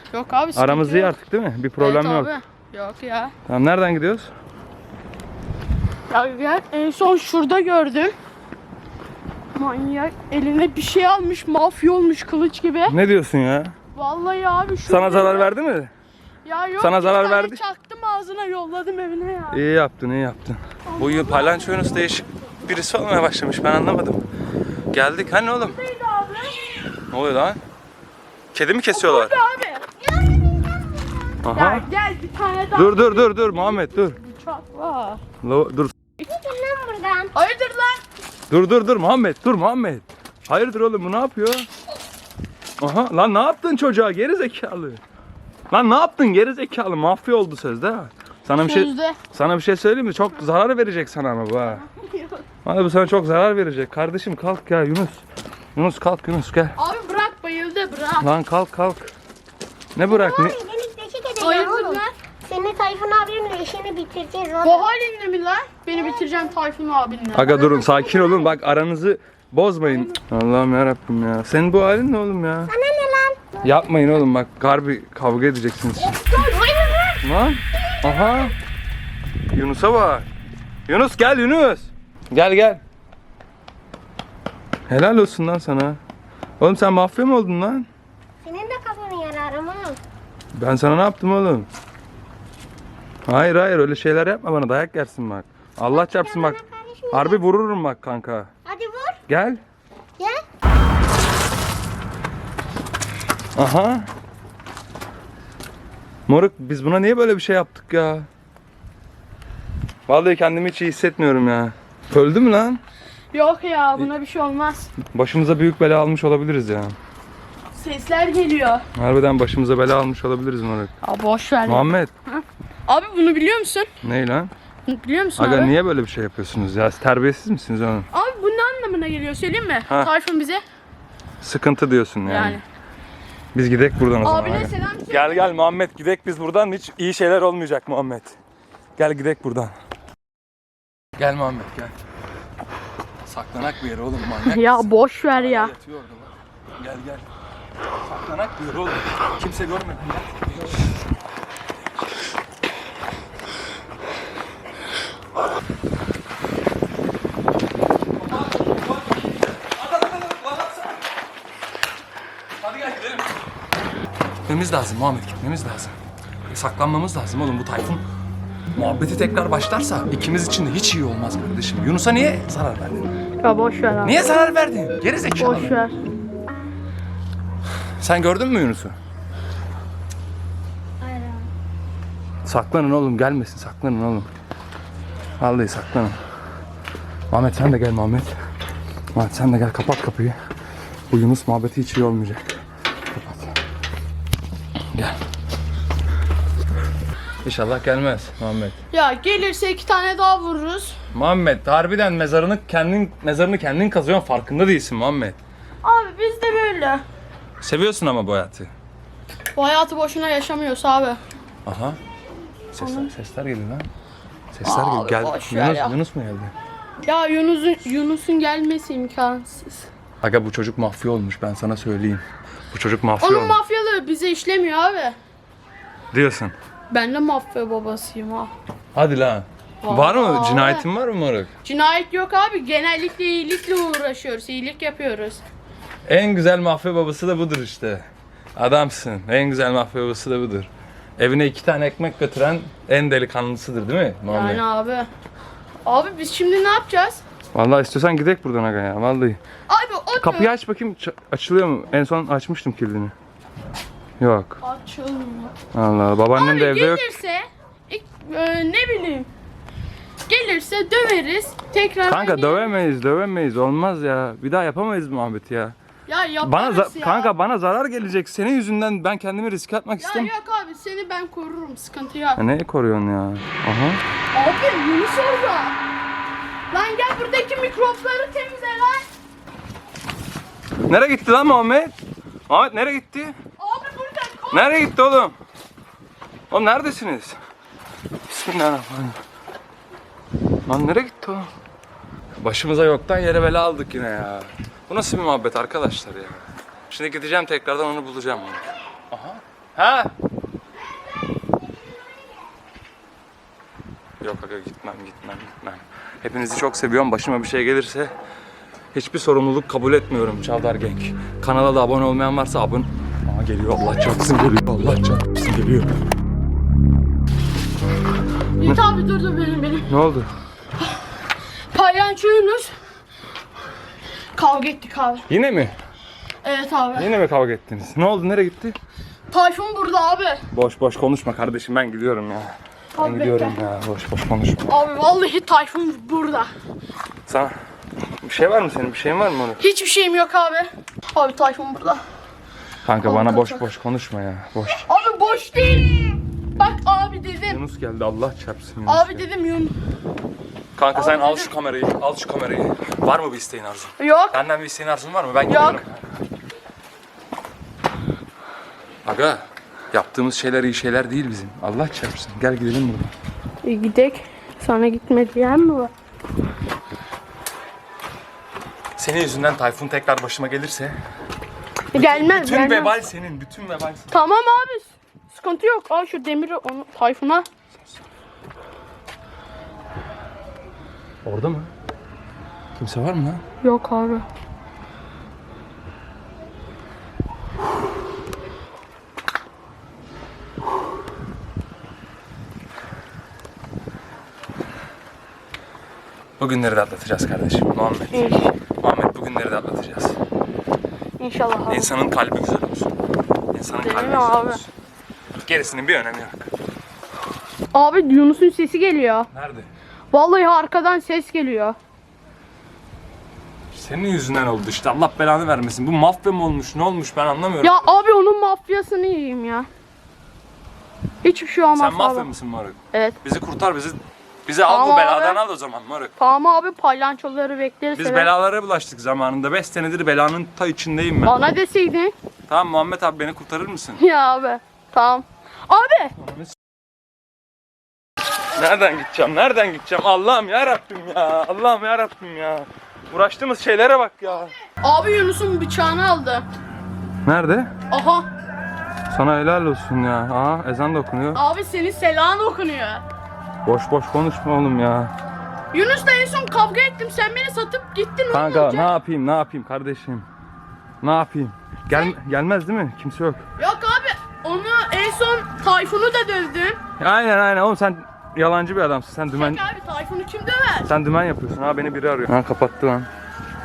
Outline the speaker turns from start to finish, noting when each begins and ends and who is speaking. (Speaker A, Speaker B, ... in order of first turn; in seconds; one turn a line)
Speaker A: 0.1-1.1
Speaker B: 0.6-2.4
Speaker A: 1.8-3.3
Speaker B: 3.5-4.3
Speaker A: 6.1-8.1
Speaker A: 9.5-13.0
Speaker B: 12.9-13.8
Speaker A: 13.9-15.5
Speaker B: 14.9-15.9
Speaker A: 16.4-19.6
Speaker B: 16.8-17.6
Speaker B: 19.5-24.2
Speaker A: 20.9-22.2
Speaker B: 24.9-25.8
Speaker A: 25.5-26.9
Speaker B: 27.1-27.6
Speaker B: 28.5-29.3
Speaker A: 28.9-29.9
Speaker C: 30.0-30.8
Speaker B: 31.4-31.9
Speaker A: 31.5-35.2
Speaker B: 32.7-34.2
Speaker B: 35.4-36.0
Speaker C: 36.2-37.3
Speaker A: 37.3-38.0
Speaker B: 38.5-41.7
Speaker B: 42.8-45.0
Speaker B: 45.7-51.8
Speaker A: 48.6-49.2
Speaker A: 51.6-52.5
Speaker B: 52.6-55.2
Speaker B: 55.8-56.8
Speaker A: 56.8-58.3
Speaker B: 58.2-59.1
Speaker B: 60.0-60.6
Speaker C: 60.0-64.9
Speaker A: 61.4-62.1
Speaker A: 64.6-68.5
Speaker C: 66.0-66.3
Speaker B: 67.3-72.7
Speaker C: 72.7-73.6
Speaker B: 73.6-76.2
Speaker A: 76.1-77.1
Speaker C: 76.4-77.2
Speaker B: 77.2-78.5
Speaker B: 79.5-80.3
Speaker B: 80.9-82.8
Speaker B: 84.9-86.0
Speaker B: 86.6-87.9
Speaker C: 88.5-90.0
Speaker B: 90.5-91.7
Speaker B: 93.3-96.6
Speaker C: 95.9-97.4
Speaker B: 97.1-98.5
Speaker C: 98.7-99.2
Speaker B: 99.3-99.6
Speaker B: 103.6-104.1
Speaker B: 106.3-108.3
Speaker B: 110.1-112.8
Speaker A: 113.3-114.9
Speaker B: 115.1-117.0
Speaker A: 117.7-118.9
Speaker B: 119.0-120.9
Speaker A: 121.0-123.9
Speaker B: 121.7-122.1
Speaker B: 124.0-124.5
Speaker A: 124.9-125.7
Speaker B: 125.4-128.1
Speaker A: 128.1-130.6
Speaker B: 131.4-132.6
Speaker A: 132.2-132.6
Speaker B: 133.5-138.4
Speaker A: 134.2-135.6
Speaker B: 139.0-139.8
Speaker B: 141.2-141.9
Speaker B: 143.3-147.2
Speaker A: 144.4-145.7
Speaker B: 148.0-150.8
Speaker B: 158.2-161.0
Speaker B: 162.6-163.3
Speaker B: 164.5-166.0
Speaker B: 166.5-168.0
Speaker B: 168.8-173.2
Speaker A: 173.4-174.3
Speaker B: 174.0-175.8
Speaker A: 175.4-176.0
Speaker B: 178.0-178.9
Speaker B: 182.4-184.3
Speaker B: 185.4-186.2
Speaker B: 187.3-188.3
Speaker B: 189.1-190.4
Speaker B: 191.1-192.5
Speaker B: 193.1-193.5
Speaker B: 194.9-195.2
Speaker B: 197.4-198.8
Speaker A: 198.9-201.0
Speaker B: 201.1-205.4
Speaker A: 205.8-207.0
Speaker B: 207.6-208.7
Speaker A: 209.6-211.2
Speaker B: 211.7-212.0
Speaker B: 212.7-213.9
Speaker A: 212.8-213.1
Speaker B: 214.5-216.5
Speaker A: 214.7-216.0
Speaker A: 217.0-219.9
Speaker B: 220.2-223.6
Speaker A: 223.2-225.2
Speaker B: 226.1-226.5
Speaker A: 226.9-228.5
Speaker B: 228.9-231.5
Speaker A: 229.8-230.9
Speaker A: 231.6-235.4
Speaker B: 236.1-244.6
Speaker A: 244.3-245.1
Speaker A: 245.8-247.2
Speaker B: 247.5-249.4
Speaker A: 249.7-250.5
Speaker B: 250.2-253.1
Speaker B: 254.2-254.6
Speaker A: 254.6-255.6
Speaker B: 255.7-257.2
Speaker A: 256.3-259.3
Speaker A: 260.3-262.8
Speaker B: 262.1-265.8
Speaker A: 266.1-267.3
Speaker B: 266.4-270.3
Speaker A: 270.0-272.4
Speaker B: 272.4-274.0
Speaker A: 274.3-275.8
Speaker A: 276.7-279.1
Speaker B: 280.9-282.0
Speaker B: 282.5-283.4
Speaker A: 283.6-284.8
Speaker B: 284.5-285.4
Speaker B: 286.5-287.4
Speaker B: 288.3-289.2
Speaker B: 290.7-291.5
Speaker B: 292.4-300.1
Speaker B: 304.2-308.1
Speaker B: 308.9-315.9
Speaker A: 318.6-319.9
Speaker B: 319.9-320.3
Speaker A: 321.7-322.7
Speaker A: 324.4-325.3
Speaker B: 325.3-325.8
Speaker A: 326.4-327.1
Speaker B: 326.9-328.8
Speaker A: 329.3-330.4
Speaker B: 330.5-334.8
Speaker A: 332.9-333.6
Speaker A: 334.7-336.5
Speaker B: 337.3-337.6
Speaker B: 338.2-339.6
Speaker A: 339.6-342.0
Speaker B: 342.9-344.9
Speaker A: 343.0-343.6
Speaker A: 344.8-347.6
Speaker B: 347.5-349.3
Speaker A: 348.9-349.7
Speaker B: 350.8-356.0
Speaker A: 350.9-351.5
Speaker A: 354.0-354.4
Speaker A: 355.5-355.9
Speaker B: 359.0-363.1
Speaker A: 363.6-365.9
Speaker B: 369.0-371.0
Speaker B: 371.9-374.2
Speaker A: 371.9-372.9
Speaker A: 374.1-377.5
Speaker B: 381.2-381.7
Speaker B: 382.8-383.4
Speaker A: 383.6-384.2
Speaker B: 396.4-400.2
Speaker A: 398.1-398.5
Speaker A: 401.2-401.9
Speaker B: 401.7-402.9
Speaker B: 403.5-404.7
Speaker A: 403.8-404.6
Speaker B: 405.4-406.5
Speaker A: 407.7-409.3
Speaker B: 409.3-409.7
Speaker A: 410.1-411.8
Speaker B: 413.7-417.9
Speaker A: 417.6-419.7
Speaker A: 421.2-422.3
Speaker B: 421.8-426.1
Speaker A: 424.6-425.4
Speaker A: 426.2-428.3
Speaker B: 427.9-431.4
Speaker A: 431.2-432.1
Speaker B: 432.5-434.0
Speaker A: 434.0-436.1
Speaker B: 436.2-436.6
Speaker B: 438.5-444.5
Speaker A: 444.8-446.4
Speaker B: 447.2-447.7
Speaker A: 447.9-448.3
Speaker B: 449.1-451.4
Speaker A: 451.3-453.0
Speaker B: 453.6-455.1
Speaker A: 455.7-458.9
Speaker B: 458.3-460.3
Speaker B: 461.0-463.4
Speaker A: 463.6-466.8
Speaker B: 467.0-469.6
Speaker A: 469.3-470.9
Speaker B: 470.9-473.1